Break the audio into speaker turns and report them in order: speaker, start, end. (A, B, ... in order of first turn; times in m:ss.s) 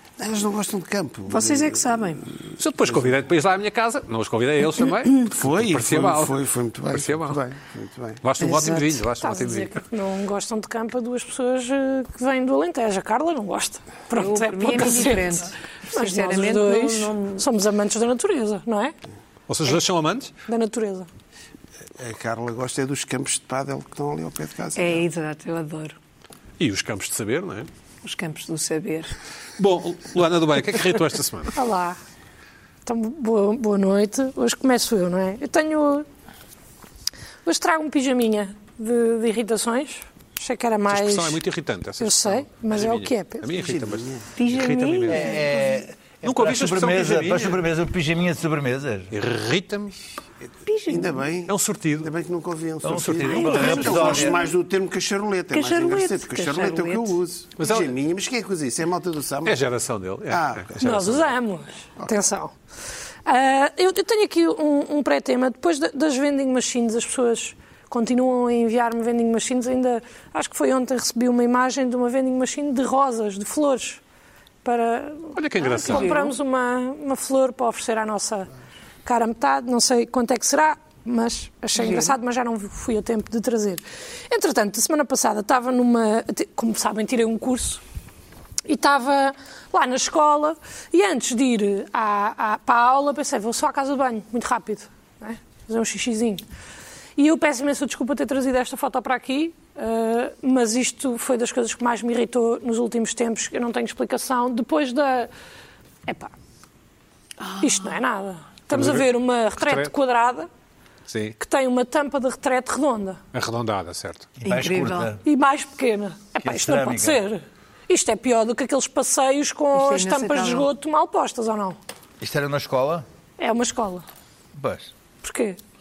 0:00.2-0:03.1 A
0:01.3-0:02.2 B
0:02.6-0:06.4 C
0:05.2-0:09.0 A
0:06.9-0:07.4 C
0:08.2-0:09.8 C
0:09.2-0:18.9 D
0:14.1-0:17.4 B
0:19.5-0:20.3 C
0:20.5-0:21.1 D
0:22.0-0:25.0 A
0:24.7-0:26.0 B
0:26.6-0:27.7 C
0:28.0-0:29.1 B
0:29.6-0:31.6 C
0:31.5-0:32.0 D
0:32.8-0:36.0 D
0:37.4-0:41.4 D
0:40.9-0:45.5 C
0:42.0-0:43.5 D
0:43.5-0:44.3 A
0:44.4-0:45.6 B
0:45.1-0:49.1 E
0:46.2-0:47.6 C
0:49.1-0:49.9 C
0:50.6-0:51.2 B
0:50.8-0:59.6 A
0:51.5-0:52.1 C
0:52.8-0:54.4 E
0:52.9-0:54.0 C
0:53.4-0:54.3 B
0:55.5-0:57.2 B
0:57.6-0:57.9 C
0:59.4-1:01.3 C
1:00.3-1:00.8 A
1:00.8-1:02.5 D
1:03.2-1:14.0 D
1:14.6-1:18.5 D
1:15.3-1:16.1 C
1:15.8-1:16.3 B
1:19.0-1:27.8 D
1:21.8-1:22.2 B
1:28.6-1:36.4 D
1:37.2-1:45.3 D
1:46.0-1:46.3 D
1:47.4-1:48.0 B
1:47.6-1:50.5 D
1:48.7-1:49.1 C
1:49.6-1:49.9 C
1:51.1-1:51.4 C
1:51.4-1:53.2 D
1:53.3-1:54.3 C
1:54.4-1:55.2 E
1:54.4-1:55.2 B
1:55.2-2:01.8 D
1:56.4-1:57.2 E
1:59.7-2:00.7 B
2:02.2-2:03.0 E
2:03.4-2:04.0 D
2:04.5-2:04.9 E
2:05.2-2:05.6 D